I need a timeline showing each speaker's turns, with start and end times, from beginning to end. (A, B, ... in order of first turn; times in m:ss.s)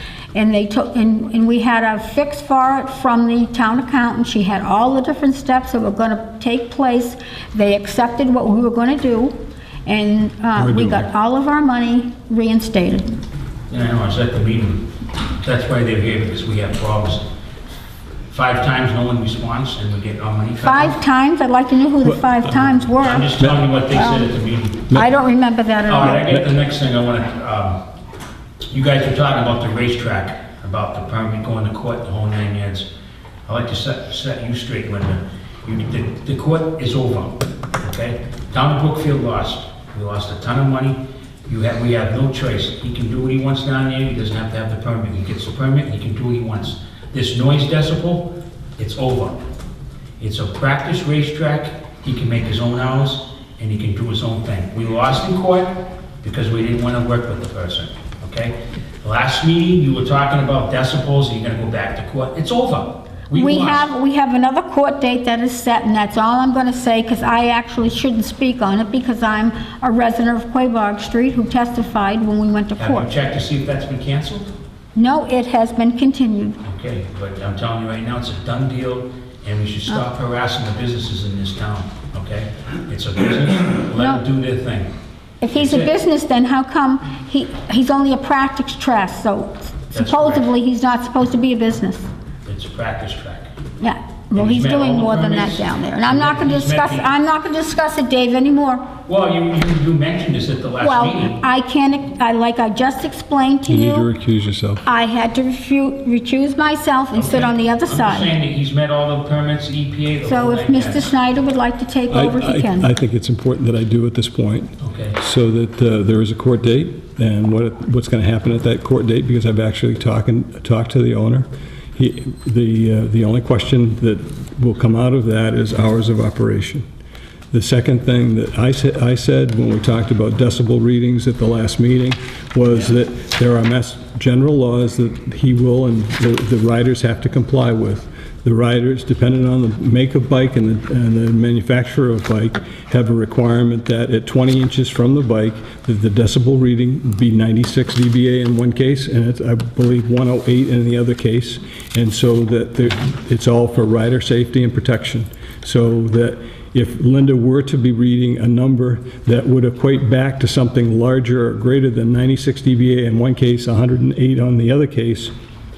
0:00.3-0:09.3 A
0:09.9-0:13.2 A
0:10.6-0:11.1 B
0:13.7-0:14.8 C
0:15.4-0:17.2 C
0:18.3-0:21.0 C
0:20.6-0:23.3 A
0:22.0-0:22.8 B
0:22.8-0:24.9 C
0:23.4-0:23.6 B
0:23.9-0:24.3 A
0:24.9-0:26.2 A
0:25.9-0:27.8 C
0:26.0-0:26.4 B
0:28.7-0:32.9 C
0:33.5-0:49.4 C
0:50.2-0:55.7 C
0:56.2-1:03.9 C
1:03.4-1:13.1 A
1:12.8-1:14.5 C
1:15.0-1:16.6 A
1:16.6-1:24.9 C
1:24.0-1:24.2 A
1:25.4-1:32.1 A
1:25.5-1:25.9 C
1:29.9-1:30.5 C
1:32.5-1:33.5 C
1:33.8-1:38.8 A
1:34.3-1:37.1 C
1:39.1-1:41.4 C
1:40.8-1:44.1 A
1:43.7-1:44.8 B
1:44.9-1:48.3 A
1:47.2-1:51.1 C
1:50.3-1:52.9 A
1:52.1-2:06.8 B
1:54.8-1:55.2 C
2:07.5-2:45.3 B